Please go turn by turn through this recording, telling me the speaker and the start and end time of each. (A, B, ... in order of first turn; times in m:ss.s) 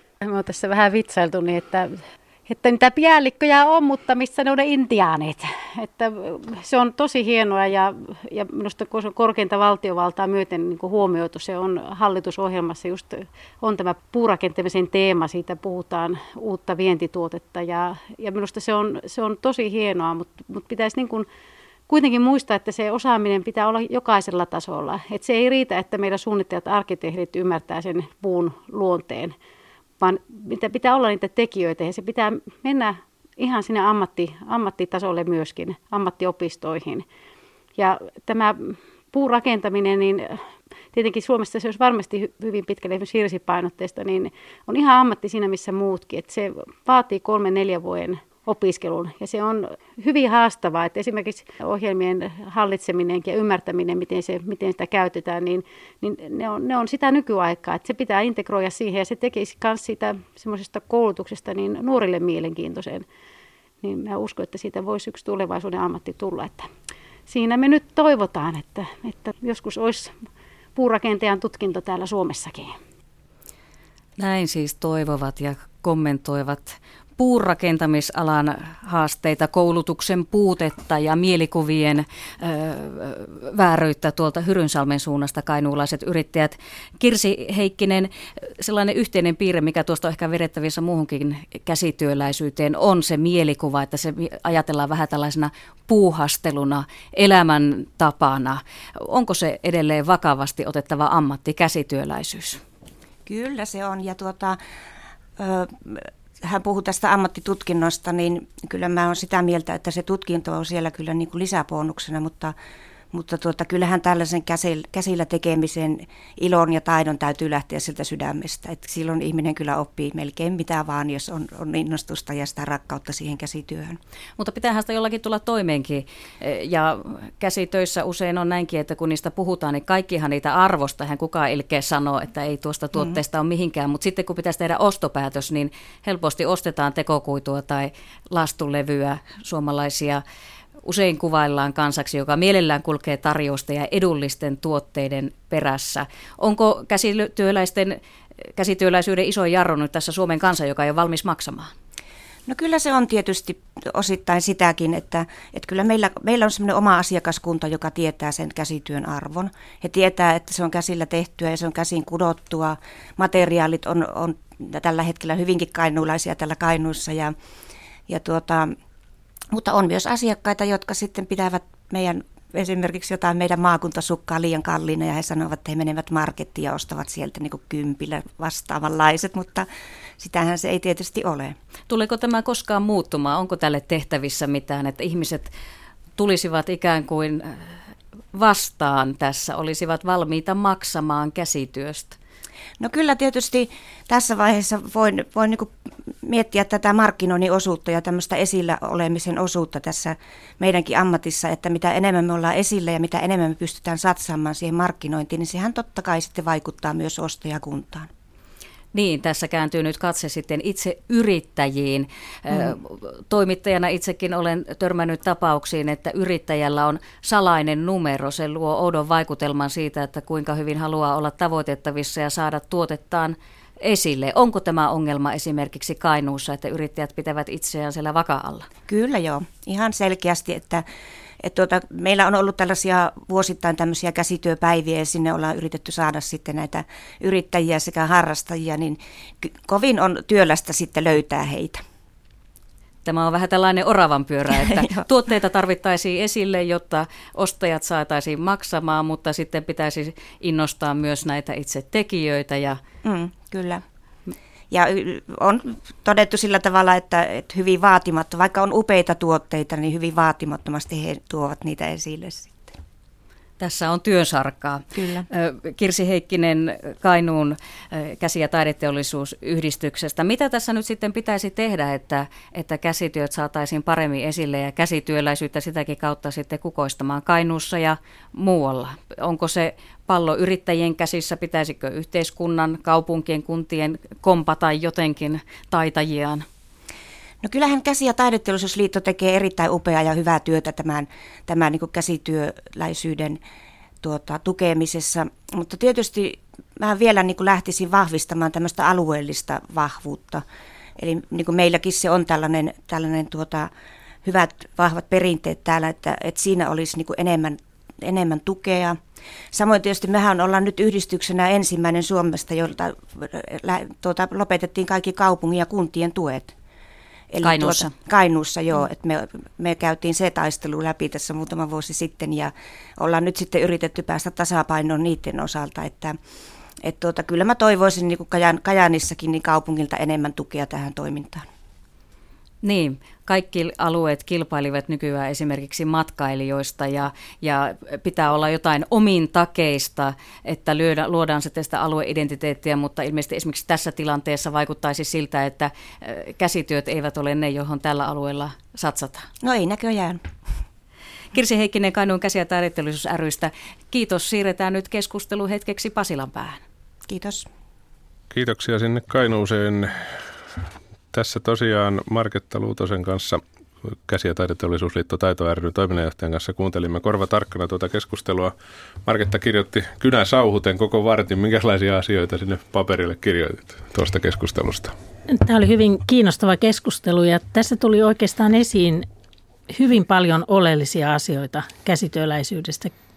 0:00.2-0:21.3 A
0:21.9-0:29.3 A
0:30.0-0:37.0 A
0:37.8-0:40.4 A
0:40.9-1:03.0 A
1:03.8-1:06.7 A
1:07.3-1:10.1 A
1:10.8-1:12.8 A
1:14.2-1:42.6 B
1:43.3-1:44.6 C
1:45.4-1:52.6 C
1:53.1-2:04.0 C
2:04.4-2:20.2 B
2:20.8-2:31.7 B
2:32.5-2:47.3 C
2:48.1-2:48.7 C
2:49.5-2:59.7 C
3:00.2-3:01.6 C
3:01.9-3:05.5 B
3:06.2-3:07.8 B
3:08.3-3:12.2 B
3:12.8-3:28.1 C
3:28.9-3:48.7 B
3:48.9-3:50.8 C
3:51.4-4:01.8 C
4:03.0-4:12.8 B
4:04.7-4:05.0 C
4:13.0-4:13.8 C
4:14.7-4:22.8 C
4:23.6-4:46.4 B
4:25.0-4:25.3 C
4:47.4-4:53.4 C
4:54.0-5:00.4 C
5:01.0-5:03.7 C
5:04.2-5:09.0 C
5:09.5-5:16.5 C
5:17.3-5:26.2 C
5:17.4-5:18.0 B
5:26.8-5:31.5 C
5:32.6-5:49.3 B
5:49.4-5:50.2 C
5:51.3-5:56.6 B
5:57.1-5:57.5 C
5:58.3-6:00.0 D
6:01.1-6:03.4 D
6:04.1-6:08.5 D
6:09.0-6:14.9 D
6:15.3-6:19.1 E
6:19.7-6:22.9 E